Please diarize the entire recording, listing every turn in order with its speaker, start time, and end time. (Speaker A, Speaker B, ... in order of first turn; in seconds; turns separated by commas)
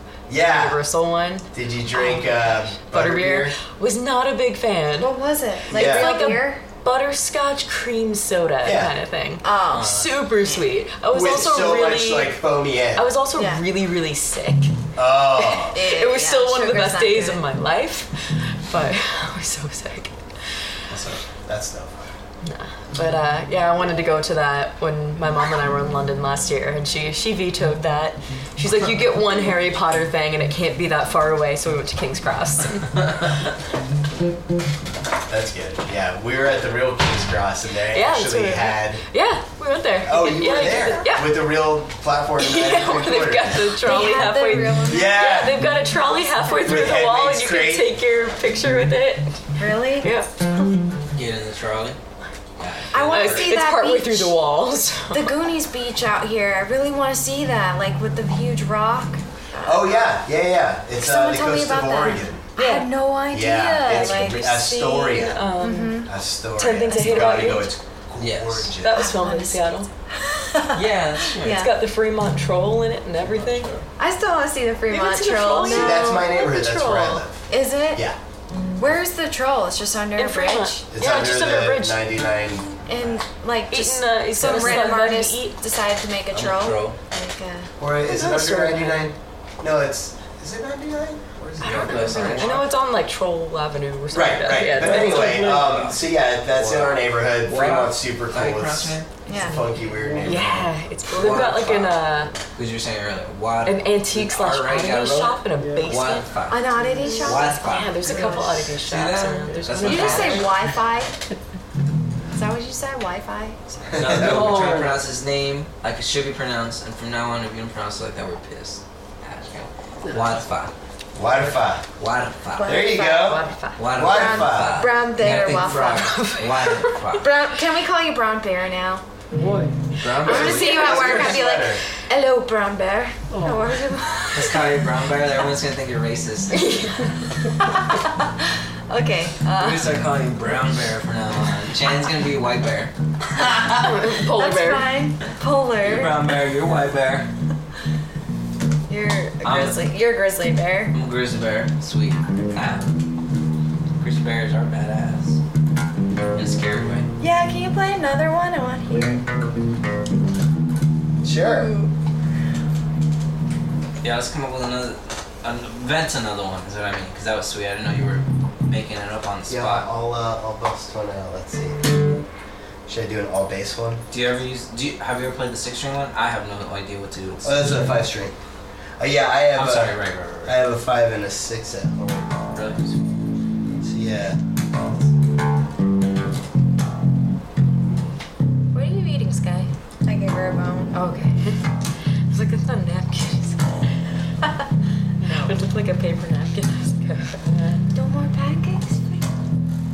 Speaker A: 0.3-0.8, Speaker B: 0.3-5.1, Speaker A: 1.5-3.6, Speaker C: 5.0-6.6, Speaker A: 5.7-6.1, Speaker B: 5.7-12.4, Speaker A: 8.6-8.9, Speaker C: 9.4-9.9, Speaker D: 9.7-10.6, Speaker A: 11.1-13.1, Speaker B: 12.9-14.7, Speaker C: 13.3-13.6, Speaker A: 14.9-15.8, Speaker B: 15.4-20.1, Speaker C: 15.7-17.4, Speaker A: 20.9-22.1, Speaker B: 22.4-33.0, Speaker A: 35.3-39.0, Speaker B: 37.9-41.4, Speaker A: 40.0-43.8, Speaker B: 42.4-50.3, Speaker C: 43.8-45.2, Speaker A: 44.8-45.8, Speaker A: 46.6-47.9, Speaker C: 49.6-50.1, Speaker D: 51.1-52.0, Speaker D: 52.6-53.6, Speaker C: 52.9-54.4, Speaker B: 53.1-55.4, Speaker C: 55.1-60.2, Speaker A: 59.6-62.5, Speaker C: 61.0-66.1, Speaker B: 62.5-62.9, Speaker A: 63.3-65.4, Speaker D: 63.8-64.6, Speaker B: 65.1-67.7, Speaker A: 66.0-69.0, Speaker C: 66.8-67.5, Speaker D: 68.2-68.7, Speaker B: 68.8-69.9, Speaker C: 68.9-71.7, Speaker D: 70.7-71.7, Speaker B: 71.4-73.7, Speaker D: 73.2-73.8, Speaker C: 74.0-76.3, Speaker B: 74.9-77.2, Speaker A: 75.6-78.2, Speaker C: 77.5-78.0, Speaker C: 78.8-80.8, Speaker B: 80.2-82.0, Speaker A: 80.9-82.8, Speaker C: 82.8-87.7, Speaker B: 83.7-85.6, Speaker D: 84.4-85.0, Speaker D: 86.3-87.0, Speaker A: 87.8-92.5, Speaker B: 88.0-89.1, Speaker D: 91.6-92.6, Speaker B: 91.6-95.6, Speaker C: 92.0-92.3, Speaker A: 94.1-101.5, Speaker E: 94.7-95.9, Speaker D: 95.5-95.9, Speaker D: 96.5-99.1, Speaker C: 99.2-99.7, Speaker E: 99.7-100.7, Speaker B: 100.2-102.3, Speaker D: 101.1-110.6, Speaker B: 103.6-110.5, Speaker E: 105.5-107.2, Speaker C: 106.5-108.6, Speaker C: 109.8-111.2, Speaker C: 112.3-113.9, Speaker A: 113.9-114.6, Speaker D: 114.0-120.7, Speaker B: 114.1-114.9, Speaker E: 114.2-115.0, Speaker E: 120.0-120.3, Speaker A: 121.1-121.9, Speaker D: 122.0-122.9, Speaker C: 122.5-126.2, Speaker A: 122.6-124.9, Speaker B: 123.0-123.8, Speaker D: 123.8-127.3, Speaker B: 125.8-127.0, Speaker C: 127.2-129.0, Speaker E: 129.3-130.1, Speaker D: 130.0-131.4, Speaker C: 130.2-134.8, Speaker A: 130.2-131.8, Speaker E: 133.3-133.9, Speaker D: 134.3-136.9, Speaker B: 136.5-136.9, Speaker C: 137.6-138.3, Speaker C: 138.9-140.0, Speaker D: 139.5-144.0, Speaker C: 143.4-143.7, Speaker B: 143.7-144.9, Speaker C: 144.2-146.2, Speaker D: 145.8-147.3, Speaker C: 148.9-150.9, Speaker D: 149.4-149.8, Speaker D: 150.9-152.9, Speaker D: 154.0-155.4, Speaker D: 156.3-157.1, Speaker C: 157.2-159.2, Speaker A: 161.2-161.7, Speaker C: 161.4-161.9, Speaker D: 164.0-169.9, Speaker A: 169.5-171.9, Speaker A: 172.9-174.0, Speaker D: 174.1-177.6, Speaker A: 177.4-178.3, Speaker A: 179.0-182.5, Speaker D: 179.5-180.6, Speaker D: 182.5-183.0, Speaker A: 183.7-185.1, Speaker C: 188.7-190.9, Speaker B: 190.9-191.7, Speaker B: 192.3-193.9, Speaker C: 195.2-195.5, Speaker B: 195.2-197.8, Speaker C: 197.9-199.2